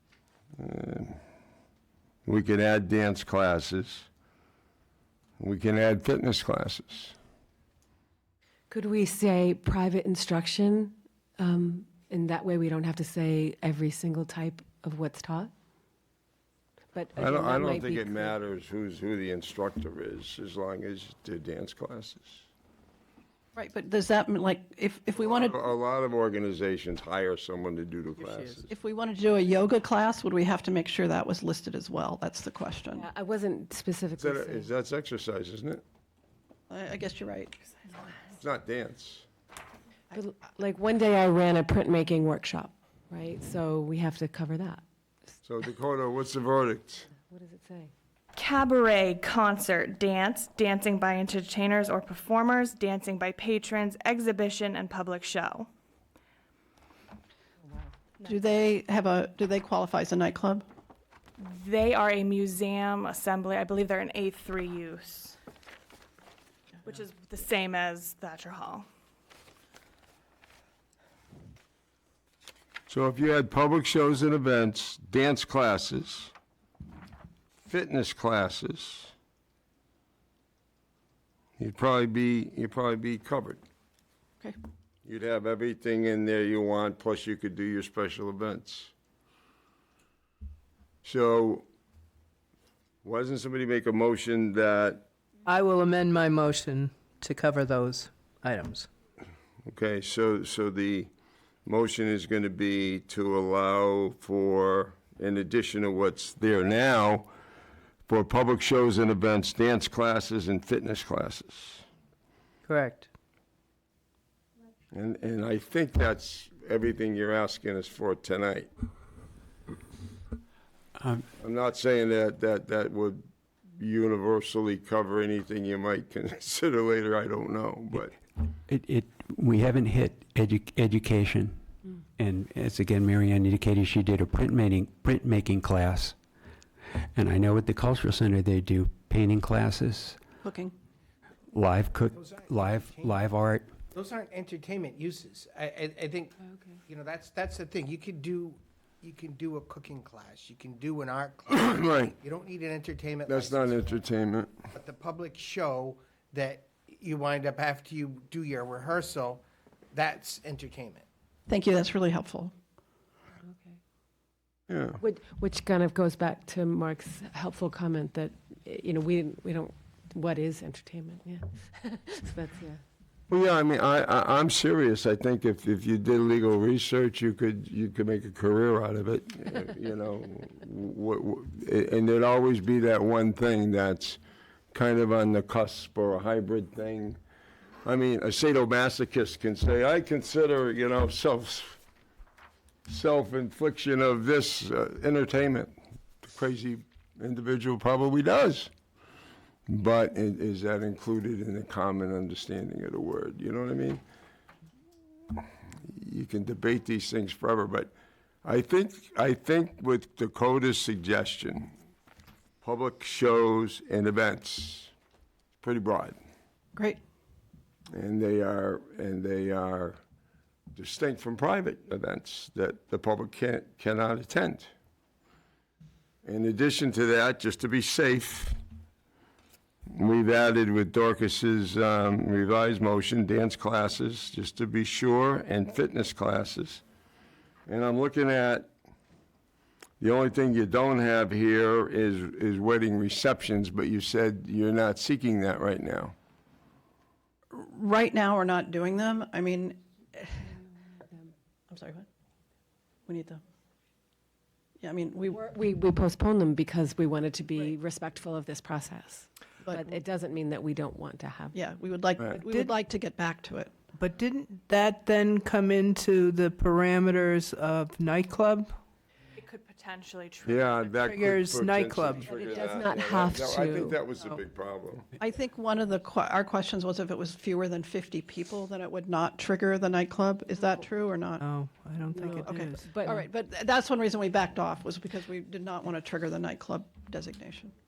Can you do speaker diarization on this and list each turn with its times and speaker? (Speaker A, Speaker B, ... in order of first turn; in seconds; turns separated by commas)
Speaker A: 0.6-1.2, Speaker A: 2.3-4.1, Speaker A: 5.4-7.2, Speaker B: 8.7-15.5, Speaker B: 16.9-18.3, Speaker A: 17.2-22.5, Speaker C: 23.6-25.6, Speaker A: 25.1-28.7, Speaker C: 28.7-33.1, Speaker B: 32.9-34.7, Speaker A: 34.2-35.8, Speaker C: 36.7-37.5, Speaker A: 38.4-39.3, Speaker B: 40.1-44.8, Speaker A: 45.4-47.1, Speaker B: 47.1-47.9, Speaker D: 48.4-55.7, Speaker D: 58.2-58.5, Speaker C: 58.2-60.6, Speaker D: 61.4-65.4, Speaker D: 66.8-68.8, Speaker A: 72.9-76.3, Speaker A: 77.7-79.1, Speaker A: 81.6-83.6, Speaker A: 85.0-88.9, Speaker A: 91.0-91.7, Speaker A: 93.0-95.0, Speaker E: 95.5-98.9, Speaker A: 99.7-101.1, Speaker A: 101.7-107.3, Speaker A: 108.1-111.8, Speaker E: 112.7-113.1, Speaker A: 114.9-118.7, Speaker F: 121.0-121.2, Speaker A: 121.4-123.3, Speaker A: 123.8-128.2, Speaker F: 128.5-131.6, Speaker F: 132.2-136.2, Speaker F: 137.1-140.2, Speaker C: 140.4-140.7, Speaker F: 141.5-143.7, Speaker G: 142.1-143.3, Speaker G: 143.9-146.3, Speaker G: 146.9-154.0, Speaker A: 151.5-152.1, Speaker A: 153.3-154.6, Speaker G: 154.7-161.1, Speaker C: 161.5-162.5, Speaker A: 164.7-165.0, Speaker B: 165.0-172.8, Speaker A: 173.3-184.2, Speaker A: 184.7-187.2, Speaker A: 187.8-191.8, Speaker A: 192.9-198.7, Speaker A: 199.7-204.0, Speaker A: 205.8-207.9, Speaker A: 208.4-211.7, Speaker A: 212.6-214.9, Speaker A: 215.6-216.2, Speaker A: 217.9-220.0, Speaker A: 220.8-224.7, Speaker A: 226.2-228.6, Speaker A: 229.9-236.8, Speaker A: 237.7-238.7, Speaker A: 240.0-246.2, Speaker C: 247.5-250.6, Speaker C: 251.7-252.1, Speaker C: 253.1-253.4, Speaker C: 254.8-255.4, Speaker B: 255.3-261.6, Speaker C: 259.6-259.9, Speaker C: 261.5-263.7, Speaker E: 262.4-262.7, Speaker E: 264.0-268.7, Speaker D: 269.4-271.1, Speaker A: 270.4-275.1, Speaker E: 271.0-272.3, Speaker D: 272.2-273.0, Speaker B: 272.5-274.0, Speaker C: 275.2-281.4, Speaker E: 281.4-282.9, Speaker B: 282.1-283.3, Speaker C: 282.6-287.7